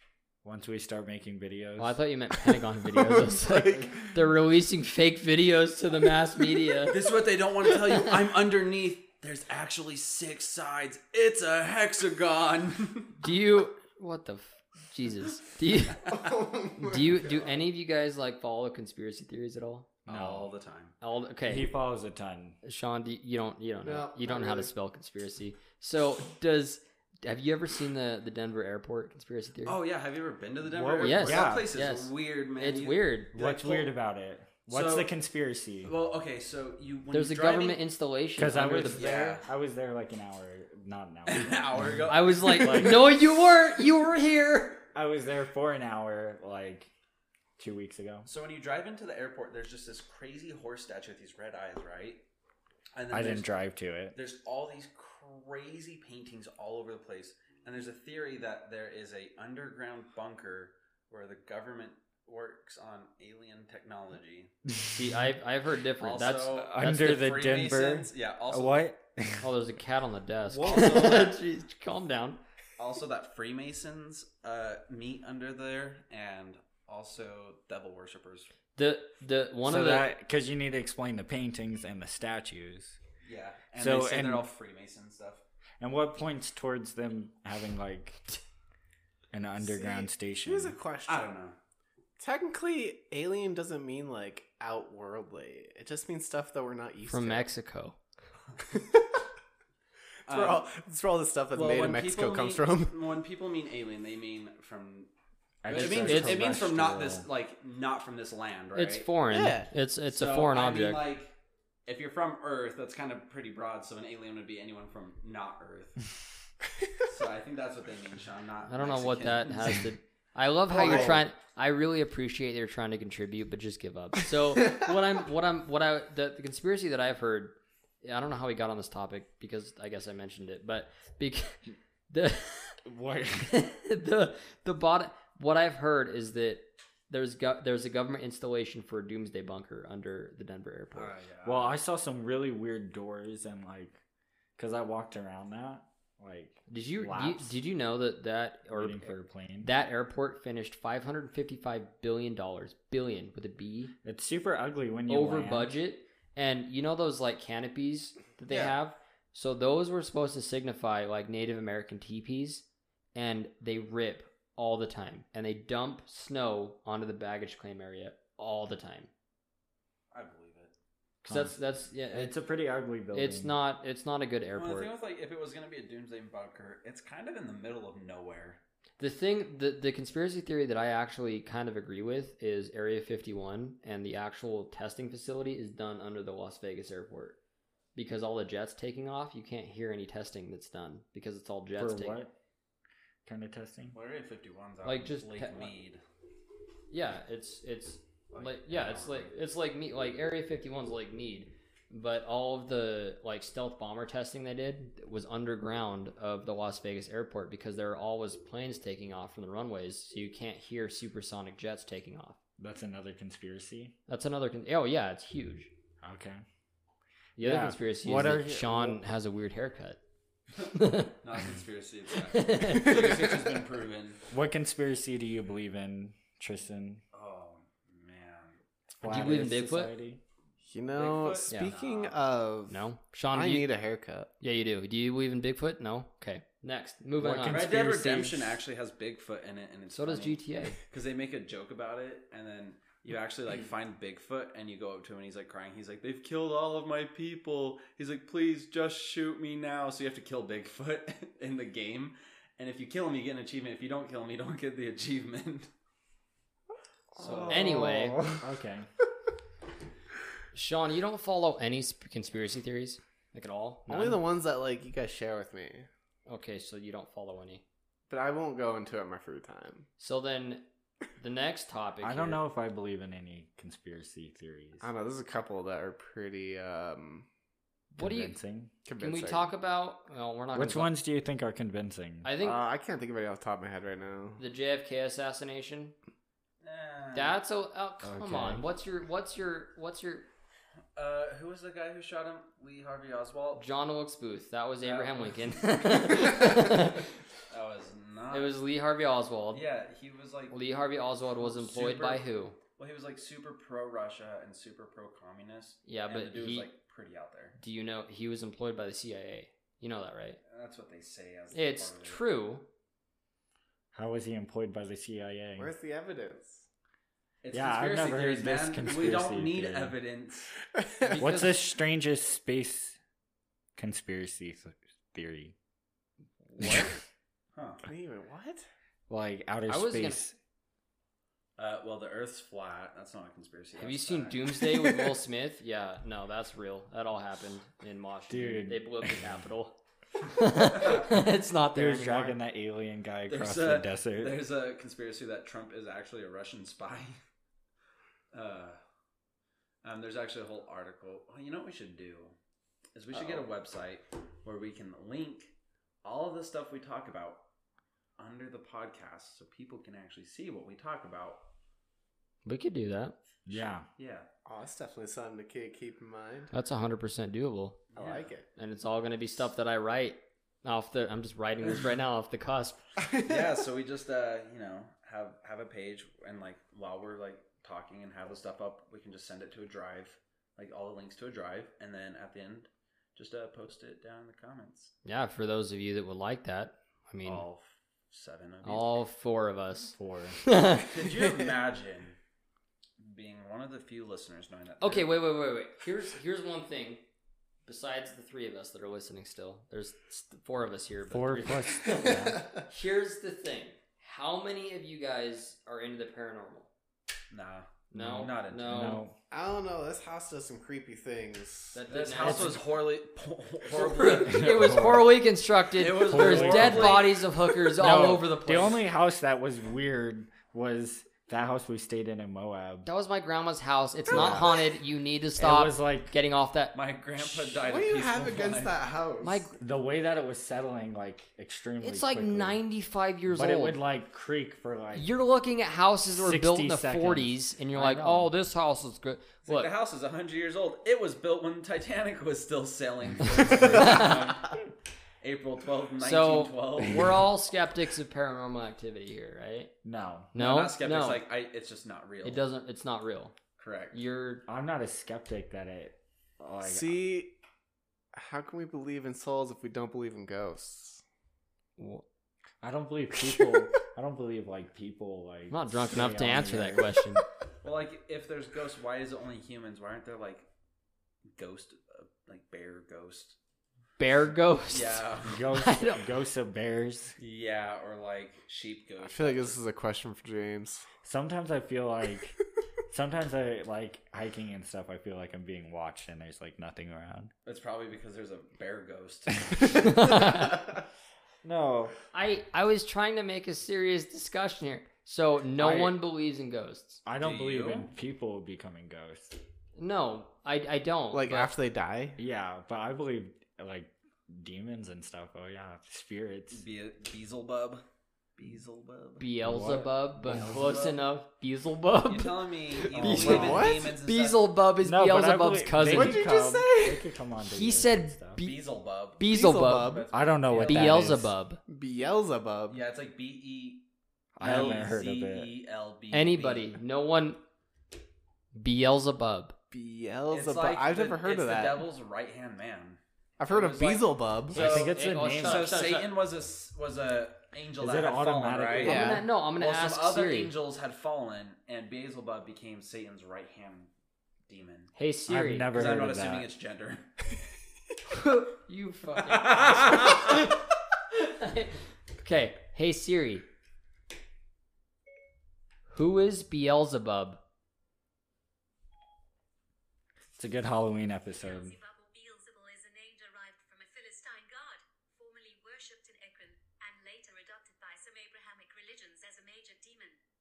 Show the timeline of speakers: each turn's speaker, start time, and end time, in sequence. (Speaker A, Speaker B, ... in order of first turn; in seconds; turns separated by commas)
Speaker A: 0.4-2.0, Speaker B: 1.8-7.0, Speaker C: 3.1-4.0, Speaker D: 6.9-13.2, Speaker B: 13.2-16.2, Speaker C: 16.1-17.5, Speaker B: 16.8-19.9, Speaker D: 20.1-20.9, Speaker A: 20.1-20.5, Speaker B: 21.0-21.7, Speaker A: 21.5-22.6, Speaker B: 22.6-29.8, Speaker C: 23.8-24.7, Speaker D: 29.6-34.0, Speaker A: 30.7-31.7, Speaker B: 31.0-33.3, Speaker A: 33.3-35.9, Speaker D: 34.7-35.1, Speaker D: 35.8-37.8, Speaker B: 37.1-39.4, Speaker A: 38.4-43.2, Speaker D: 38.8-39.5, Speaker D: 41.3-43.0, Speaker B: 42.1-44.8, Speaker A: 44.9-46.9, Speaker A: 47.6-48.3, Speaker D: 48.3-52.2, Speaker D: 52.9-53.5, Speaker A: 53.1-54.2, Speaker D: 54.1-64.5, Speaker B: 65.0-67.2, Speaker D: 66.0-68.9, Speaker A: 66.5-69.5, Speaker B: 69.4-72.4, Speaker A: 70.5-71.2, Speaker D: 70.6-71.4, Speaker D: 72.8-78.5, Speaker B: 78.8-80.2, Speaker A: 79.7-83.0, Speaker D: 83.2-85.4, Speaker A: 83.8-84.5, Speaker A: 85.8-88.4, Speaker A: 89.3-90.8, Speaker C: 89.6-91.3, Speaker D: 91.1-91.6, Speaker C: 92.2-97.5, Speaker B: 97.0-98.0, Speaker C: 98.7-99.2, Speaker D: 100.3-100.7, Speaker C: 100.3-102.9, Speaker D: 101.5-105.1, Speaker A: 105.6-107.3, Speaker D: 105.7-109.1, Speaker B: 105.7-106.5, Speaker B: 108.8-111.0, Speaker C: 109.3-109.7, Speaker D: 110.1-111.3, Speaker D: 111.9-116.1, Speaker D: 117.0-119.9, Speaker B: 118.7-132.8, Speaker C: 120.7-121.2, Speaker A: 120.9-121.2, Speaker A: 132.8-133.5, Speaker B: 133.4-141.1, Speaker D: 140.9-141.8, Speaker A: 141.4-144.0, Speaker A: 144.6-147.6, Speaker B: 146.7-153.9, Speaker A: 148.7-149.7, Speaker A: 154.0-155.7, Speaker B: 155.1-169.1, Speaker D: 170.1-170.7, Speaker A: 171.2-171.6, Speaker B: 171.3-172.3, Speaker A: 172.1-173.6, Speaker B: 173.1-174.9, Speaker D: 174.6-178.6, Speaker B: 179.0-187.4, Speaker B: 187.9-192.2, Speaker A: 191.8-192.3, Speaker A: 193.3-194.0, Speaker D: 193.9-196.0, Speaker B: 194.8-195.7, Speaker B: 196.9-212.4, Speaker D: 198.3-199.3, Speaker A: 212.6-213.9, Speaker B: 214.1-215.7, Speaker A: 216.0-216.4, Speaker B: 217.4-220.0, Speaker A: 217.4-219.0, Speaker B: 220.6-221.2, Speaker D: 221.2-224.3, Speaker B: 222.3-223.3, Speaker A: 224.3-227.0, Speaker D: 227.1-228.6, Speaker A: 229.0-230.2, Speaker B: 229.0-229.9, Speaker C: 230.6-234.3, Speaker D: 230.9-232.2, Speaker B: 231.5-231.8, Speaker B: 232.7-233.7, Speaker B: 234.4-237.7, Speaker A: 237.2-238.6, Speaker D: 237.5-255.7, Speaker B: 239.9-240.8, Speaker C: 257.2-258.5, Speaker A: 257.2-258.9, Speaker B: 257.2-258.2, Speaker B: 260.5-264.2, Speaker C: 263.9-265.9, Speaker B: 266.3-267.6, Speaker C: 268.1-269.9, Speaker B: 270.0-270.6, Speaker B: 271.2-272.4, Speaker A: 272.0-274.9, Speaker C: 274.8-277.3, Speaker A: 277.9-278.7, Speaker B: 278.0-278.4, Speaker C: 278.9-279.5, Speaker B: 279.0-280.9, Speaker A: 280.5-282.3, Speaker B: 282.2-282.6, Speaker C: 282.4-284.4, Speaker B: 284.4-285.9, Speaker D: 286.6-287.4, Speaker B: 287.1-290.3, Speaker A: 288.0-288.6, Speaker D: 291.0-293.6, Speaker B: 293.6-297.1, Speaker D: 294.8-296.8, Speaker D: 297.5-298.5, Speaker B: 298.3-299.6, Speaker D: 299.5-300.6, Speaker B: 300.5-302.6, Speaker D: 301.4-307.6, Speaker B: 305.9-306.7, Speaker B: 307.6-310.4, Speaker D: 310.5-312.2, Speaker B: 311.5-312.6, Speaker A: 313.9-315.7, Speaker C: 315.6-316.7, Speaker D: 317.4-320.6, Speaker A: 317.5-320.0, Speaker C: 320.8-321.2, Speaker B: 321.0-321.6, Speaker A: 321.2-323.0, Speaker A: 323.8-325.6, Speaker B: 326.5-326.9, Speaker A: 326.6-327.0, Speaker D: 327.6-327.8, Speaker C: 327.8-328.7, Speaker A: 329.1-330.4, Speaker B: 329.7-330.2, Speaker D: 331.6-334.9, Speaker B: 333.8-342.4, Speaker A: 338.3-339.3, Speaker A: 341.8-344.4, Speaker D: 343.3-347.1, Speaker D: 348.3-348.8, Speaker D: 349.8-352.4, Speaker D: 352.9-357.4, Speaker D: 358.2-361.4, Speaker B: 362.4-363.1, Speaker A: 363.5-363.9, Speaker D: 363.5-364.3, Speaker C: 364.4-366.5, Speaker B: 366.5-367.8, Speaker D: 367.9-368.3, Speaker C: 368.0-368.5, Speaker B: 368.6-372.8, Speaker D: 373.2-384.9, Speaker B: 385.1-387.4, Speaker D: 387.2-389.0, Speaker B: 388.6-390.9, Speaker A: 390.0-390.4, Speaker D: 390.8-392.2, Speaker D: 393.0-395.2, Speaker B: 394.8-397.0, Speaker B: 397.7-406.7, Speaker A: 401.1-402.5, Speaker D: 407.3-408.9, Speaker B: 407.9-409.0, Speaker A: 408.0-409.1, Speaker C: 409.3-411.8, Speaker B: 411.7-412.6, Speaker D: 411.9-415.0, Speaker B: 413.7-418.8, Speaker A: 414.3-415.1, Speaker D: 415.8-418.1, Speaker A: 416.1-417.1, Speaker A: 417.8-422.9, Speaker B: 422.9-426.8, Speaker C: 424.1-424.5, Speaker A: 424.1-424.5, Speaker A: 425.4-426.1, Speaker D: 426.7-428.8, Speaker C: 427.6-429.4, Speaker B: 429.2-429.6, Speaker A: 429.6-432.6, Speaker B: 431.8-433.8, Speaker A: 433.3-435.1, Speaker B: 435.0-439.7, Speaker A: 436.1-438.3, Speaker D: 439.5-447.3, Speaker B: 443.3-444.4, Speaker B: 446.0-449.7, Speaker A: 449.8-450.3, Speaker B: 450.3-451.2, Speaker D: 450.4-452.5, Speaker B: 452.2-453.3, Speaker D: 453.6-454.0, Speaker B: 453.9-454.5, Speaker A: 454.5-457.0, Speaker C: 456.6-457.4, Speaker C: 458.1-461.0, Speaker B: 461.8-462.1, Speaker A: 462.6-467.0, Speaker B: 465.5-467.2, Speaker D: 467.6-470.5, Speaker D: 471.4-473.4, Speaker B: 474.0-476.0, Speaker D: 474.7-475.4, Speaker A: 475.2-477.2, Speaker D: 477.2-479.6, Speaker C: 479.0-480.9, Speaker A: 481.0-482.4, Speaker A: 482.9-487.3, Speaker D: 487.4-490.4, Speaker B: 489.7-490.7, Speaker A: 491.4-491.9, Speaker B: 492.1-497.0, Speaker A: 495.6-496.0, Speaker A: 497.1-499.4, Speaker D: 497.2-497.9, Speaker B: 499.8-501.5, Speaker C: 501.1-502.2, Speaker A: 502.2-506.6, Speaker D: 506.5-507.8, Speaker D: 508.4-509.3, Speaker B: 509.2-516.3, Speaker A: 509.4-510.7, Speaker D: 510.3-511.0, Speaker D: 512.1-514.5, Speaker C: 512.9-513.9, Speaker A: 514.8-518.4, Speaker C: 515.8-517.1, Speaker B: 517.4-518.7, Speaker D: 518.4-521.1, Speaker B: 519.2-521.6, Speaker C: 519.2-520.1, Speaker A: 520.1-521.3, Speaker C: 521.7-522.8, Speaker D: 522.7-523.9, Speaker A: 524.4-525.5, Speaker D: 524.4-526.7, Speaker B: 526.1-527.4, Speaker B: 528.5-529.5, Speaker C: 529.7-531.9, Speaker D: 530.3-543.9, Speaker C: 533.4-534.6, Speaker B: 534.5-536.1, Speaker A: 534.5-535.7, Speaker A: 537.8-539.2, Speaker B: 538.8-540.5, Speaker C: 538.8-539.2, Speaker D: 544.5-544.9, Speaker B: 544.9-545.7, Speaker A: 545.3-546.5, Speaker D: 545.7-547.1, Speaker B: 548.1-550.6, Speaker D: 549.3-550.4, Speaker B: 551.1-553.5, Speaker B: 555.9-557.4, Speaker A: 560.4-561.8, Speaker E: 561.4-570.2